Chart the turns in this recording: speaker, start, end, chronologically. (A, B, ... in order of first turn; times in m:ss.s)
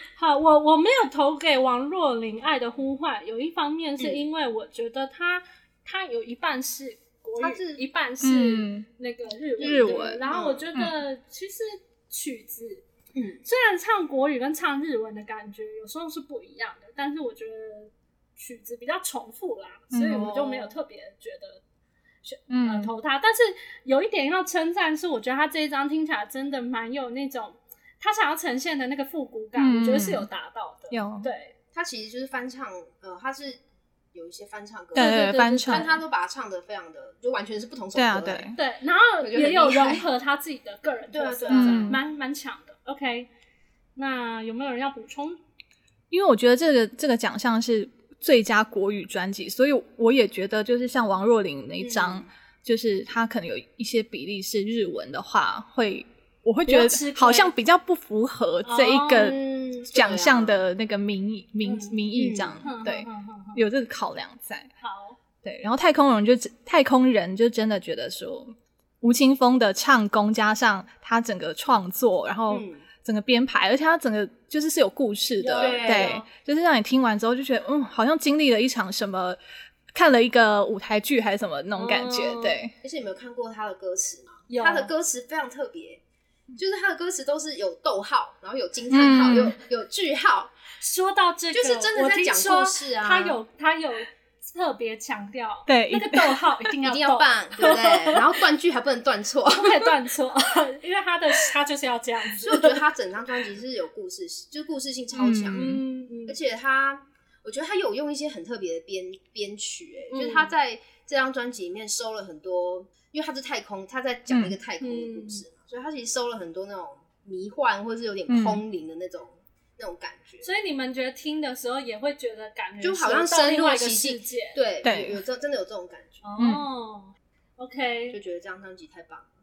0:00.2-0:12.8 A
0:04.0-0:04.3 B
0:07.4-0:07.8 B
0:08.2-0:08.9 C
0:09.6-0:10.2 C
0:09.6-0:10.7 B
0:13.1-0:13.4 B
0:13.4-0:21.6 A
0:19.9-0:20.3 C
0:20.1-0:20.8 B
0:22.2-0:31.5 A
0:22.5-0:22.9 C
0:29.6-0:30.3 C
0:30.9-0:31.3 C
0:31.7-0:33.6 B
0:34.1-0:38.5 B
0:35.0-0:35.9 A
0:35.0-0:36.0 C
0:38.0-0:38.6 C
0:38.6-0:43.3 A
0:39.2-0:40.1 B
0:41.1-0:42.0 B
0:41.5-0:42.0 C
0:44.0-0:45.4 A
0:46.1-1:04.7 C
0:51.8-0:52.3 B
0:56.7-0:57.5 A
0:58.6-0:59.4 A
0:59.1-1:00.6 B
1:02.1-1:02.6 B
1:02.6-1:03.6 A
1:04.8-1:05.2 A
1:05.4-1:19.4 C
1:12.5-1:12.8 B
1:15.4-1:16.3 A
1:15.6-1:16.2 B
1:19.9-1:22.7 C
1:21.7-1:22.6 A
1:22.8-1:26.0 B
1:24.5-1:24.9 A
1:26.6-1:30.5 B
1:28.9-1:29.6 C
1:30.8-1:38.3 A
1:31.5-1:33.4 B
1:35.7-1:36.4 C
1:36.8-1:40.0 B
1:39.5-1:42.8 A
1:42.4-2:00.5 B
1:45.2-1:45.8 C
1:45.5-1:46.4 A
1:50.1-1:50.5 A
1:54.3-1:54.6 C
1:54.8-1:55.4 A
1:58.3-1:58.6 C
2:00.4-2:04.6 A
2:02.8-2:06.2 B
2:04.8-2:05.2 C
2:06.2-2:08.2 A
2:06.4-2:06.6 C
2:08.1-2:09.3 B